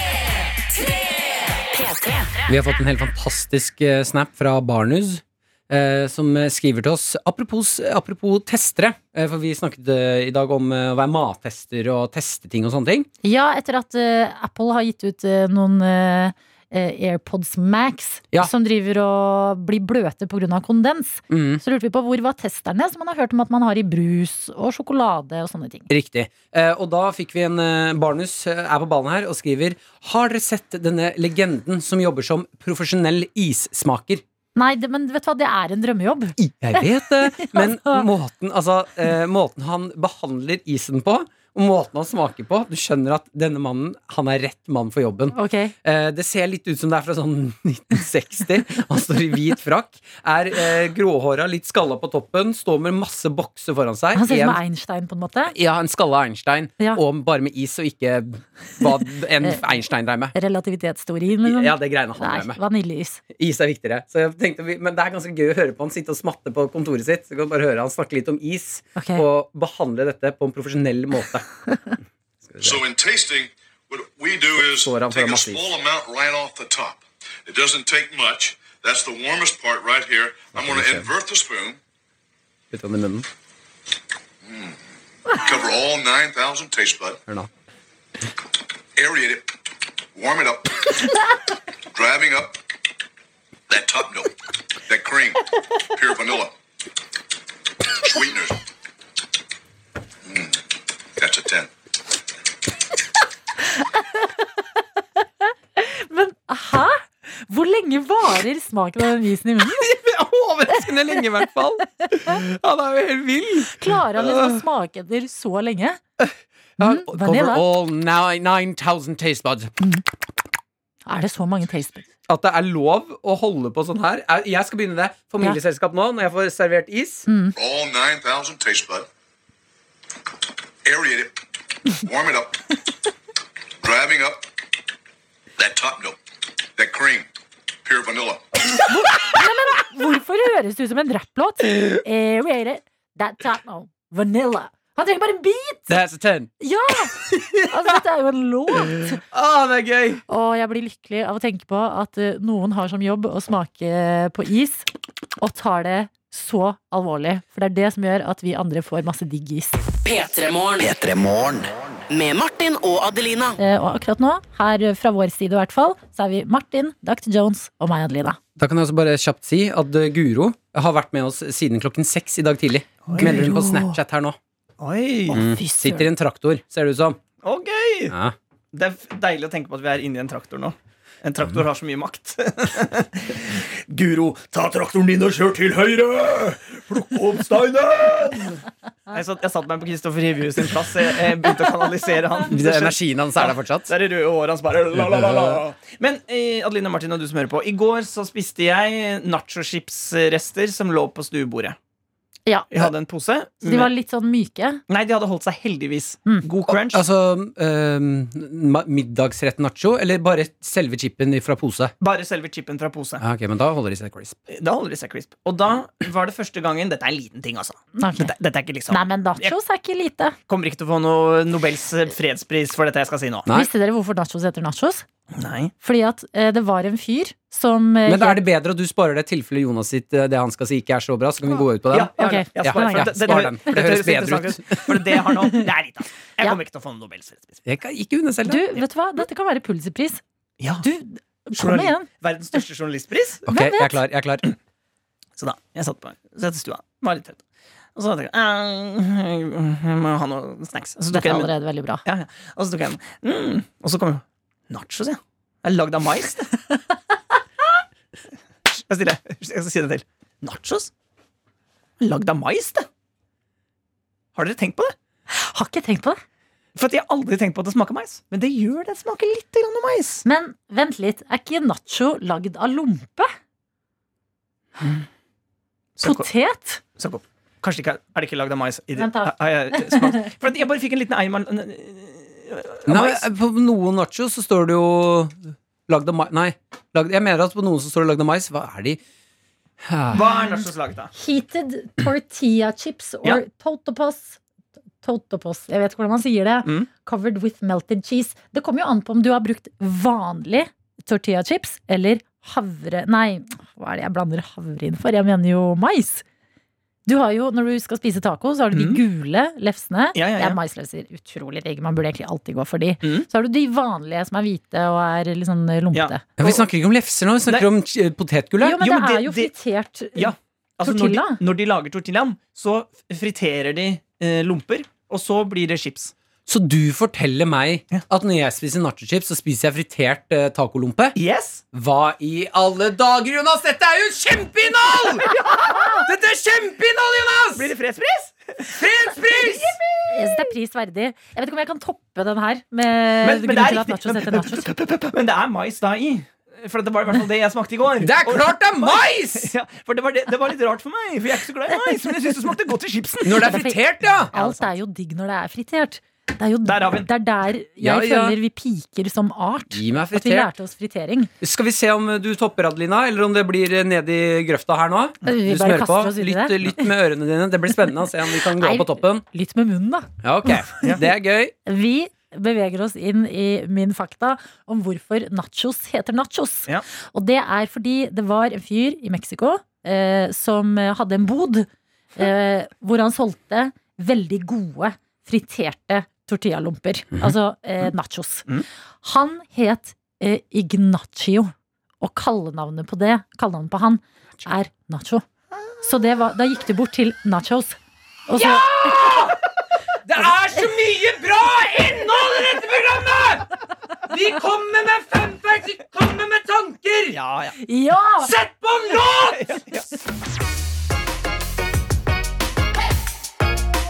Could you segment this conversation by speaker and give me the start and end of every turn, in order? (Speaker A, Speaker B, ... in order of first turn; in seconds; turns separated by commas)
Speaker A: 1.6-2.3, Speaker B: 2.5-13.1, Speaker C: 13.2-25.9, Speaker B: 21.3-21.6, Speaker B: 25.9-34.2, Speaker C: 34.6-38.0, Speaker B: 36.4-54.6, Speaker C: 45.3-45.7, Speaker C: 54.1-55.5, Speaker B: 55.5-60.3, Speaker C: 60.3-63.2, Speaker B: 61.4-62.6, Speaker B: 63.3-71.5, Speaker C: 69.0-69.2, Speaker B: 72.5-72.8, Speaker D: 72.6-81.8, Speaker B: 74.6-75.7, Speaker B: 80.5-81.1, Speaker B: 82.7-83.3, Speaker D: 84.4-87.2, Speaker D: 89.0-89.5, Speaker D: 90.2-91.1, Speaker D: 91.9-92.6, Speaker D: 93.7-94.3, Speaker D: 94.9-96.5, Speaker D: 98.0-98.6, Speaker D: 100.3-100.6, Speaker D: 101.2-101.7, Speaker C: 103.8-104.4, Speaker C: 105.2-109.9, Speaker B: 109.6-114.6, Speaker C: 113.7-116.0, Speaker B: 116.8-119.8, Speaker C: 116.8-117.6, Speaker C: 121.1-122.1, Speaker B: 122.3-127.3, Speaker C: 127.3-127.6, Speaker D: 127.5-129.1, Speaker D: 130.8-131.4, Speaker D: 131.9-132.6, Speaker D: 133.8-134.5, Speaker D: 135.6-136.2, Speaker D: 136.8-137.3, Speaker D: 137.8-138.8, Speaker C: 138.9-145.9, Speaker B: 145.9-146.5, Speaker C: 146.6-149.2, Speaker B: 147.2-147.9, Speaker B: 148.9-150.2, Speaker C: 150.3-154.9, Speaker C: 155.4-159.8, Speaker A: 160.0-163.6, Speaker C: 163.6-168.4, Speaker B: 168.6-174.4, Speaker E: 173.1-173.7, Speaker C: 173.2-173.8, Speaker E: 174.8-175.4, Speaker C: 175.3-176.1, Speaker B: 175.3-177.2, Speaker E: 177.4-178.2, Speaker B: 178.1-178.3, Speaker E: 178.7-201.8, Speaker B: 192.5-193.9, Speaker C: 202.5-202.9, Speaker E: 202.7-203.9, Speaker C: 203.6-204.8, Speaker E: 204.9-207.0, Speaker B: 206.7-211.9, Speaker E: 212.0-213.2, Speaker B: 213.2-214.4, Speaker E: 214.5-219.6, Speaker C: 218.0-218.3, Speaker C: 218.9-220.4, Speaker E: 220.5-223.5, Speaker C: 223.5-225.1, Speaker E: 225.3-225.7, Speaker C: 225.8-228.4, Speaker B: 228.1-234.9, Speaker E: 231.9-237.6, Speaker C: 232.2-233.5, Speaker B: 237.7-238.8, Speaker C: 238.4-240.2, Speaker E: 240.6-240.8, Speaker C: 240.8-242.1, Speaker E: 241.6-243.4, Speaker B: 243.5-244.4, Speaker C: 243.5-243.9, Speaker E: 245.4-247.4, Speaker E: 248.0-251.5, Speaker C: 251.1-252.0, Speaker E: 252.1-256.6, Speaker E: 258.7-260.9, Speaker E: 262.0-262.9, Speaker E: 264.4-264.9, Speaker C: 265.3-266.2, Speaker E: 266.8-270.2, Speaker C: 270.2-273.3, Speaker E: 276.0-276.3, Speaker C: 276.0-276.8, Speaker E: 277.0-283.2, Speaker C: 279.0-280.3, Speaker B: 282.9-289.0, Speaker B: 289.8-290.2, Speaker E: 290.1-291.1, Speaker C: 290.1-290.6, Speaker C: 291.1-294.4, Speaker C: 295.0-306.2, Speaker C: 307.1-316.2, Speaker E: 308.7-309.0, Speaker E: 310.1-310.6, Speaker E: 315.9-316.5, Speaker B: 316.4-318.8, Speaker C: 318.6-321.4, Speaker E: 318.8-319.5, Speaker E: 320.1-326.1, Speaker B: 326.5-331.2, Speaker E: 331.2-331.6, Speaker B: 331.7-337.7, Speaker E: 337.6-338.8, Speaker B: 338.7-339.8, Speaker E: 339.3-340.4, Speaker C: 340.1-344.7, Speaker E: 343.2-353.7, Speaker B: 348.0-349.5, Speaker B: 353.2-354.3, Speaker C: 353.3-361.3, Speaker E: 354.2-354.8, Speaker E: 356.6-357.1, Speaker B: 357.8-358.4, Speaker B: 359.7-360.5, Speaker B: 361.4-369.2, Speaker C: 365.2-366.7, Speaker C: 368.6-370.9, Speaker B: 370.2-371.5, Speaker C: 371.6-388.5, Speaker C: 389.0-395.3, Speaker C: 395.8-397.8, Speaker C: 398.3-399.2, Speaker B: 398.3-399.4, Speaker B: 400.0-407.2, Speaker E: 407.1-407.6, Speaker C: 407.6-408.3, Speaker B: 408.2-409.5, Speaker E: 409.2-409.9